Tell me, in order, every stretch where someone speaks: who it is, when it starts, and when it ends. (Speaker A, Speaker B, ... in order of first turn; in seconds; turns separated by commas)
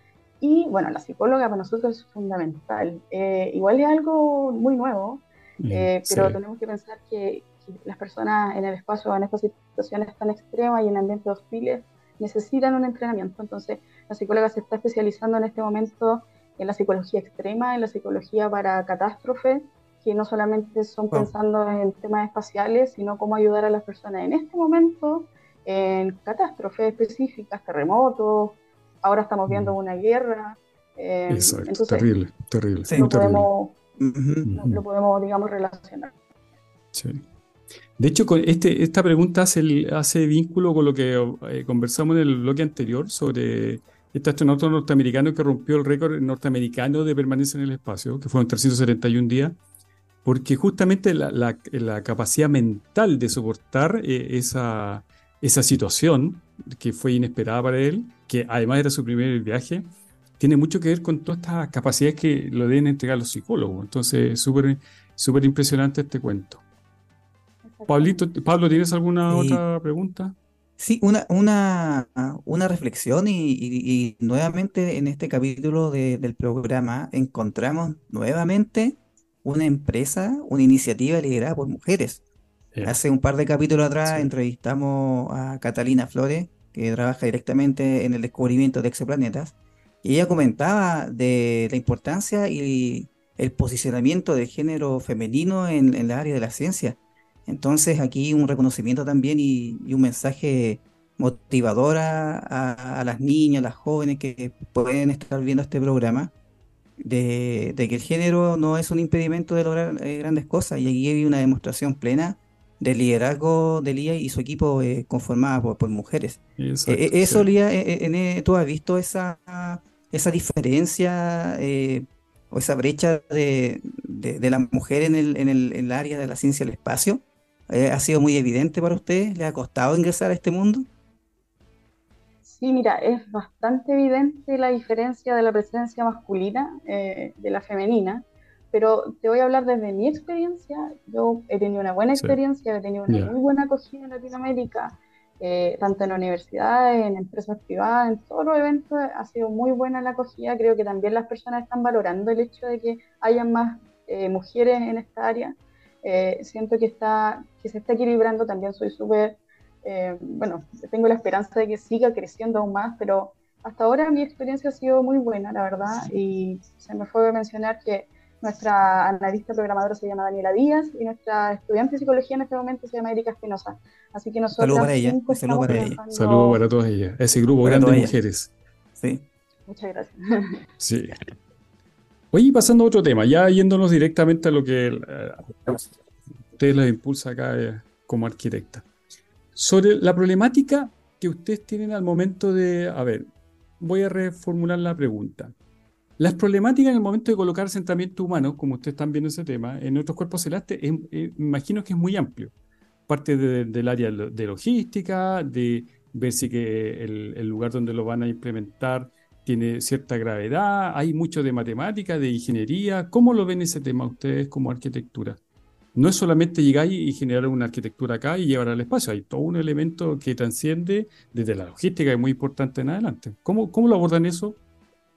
Speaker A: 0.4-32.1, Speaker B: 5.6-6.4, Speaker B: 29.5-29.8, Speaker B: 31.3-33.5, Speaker A: 32.9-33.8, Speaker C: 34.0-34.5, Speaker B: 34.5-34.8, Speaker A: 34.5-36.1, Speaker B: 36.9-37.2, Speaker B: 38.0-49.5, Speaker B: 50.2-59.9, Speaker B: 60.4-66.6, Speaker A: 67.7-68.2, Speaker B: 67.9-70.3, Speaker C: 69.3-69.6, Speaker C: 70.8-82.2, Speaker C: 82.8-106.3, Speaker B: 84.0-84.3, Speaker C: 107.0-130.8, Speaker B: 116.6-117.5, Speaker A: 132.4-176.6, Speaker B: 143.1-143.3, Speaker C: 174.6-176.0, Speaker B: 175.7-178.5, Speaker C: 177.6-178.1, Speaker C: 179.0-179.2, Speaker A: 179.7-180.7, Speaker B: 180.8-181.2, Speaker B: 182.3-185.9, Speaker B: 186.5-188.8, Speaker B: 189.6-193.3, Speaker B: 193.8-195.5, Speaker B: 196.2-202.5, Speaker B: 203.1-215.4, Speaker B: 215.9-224.6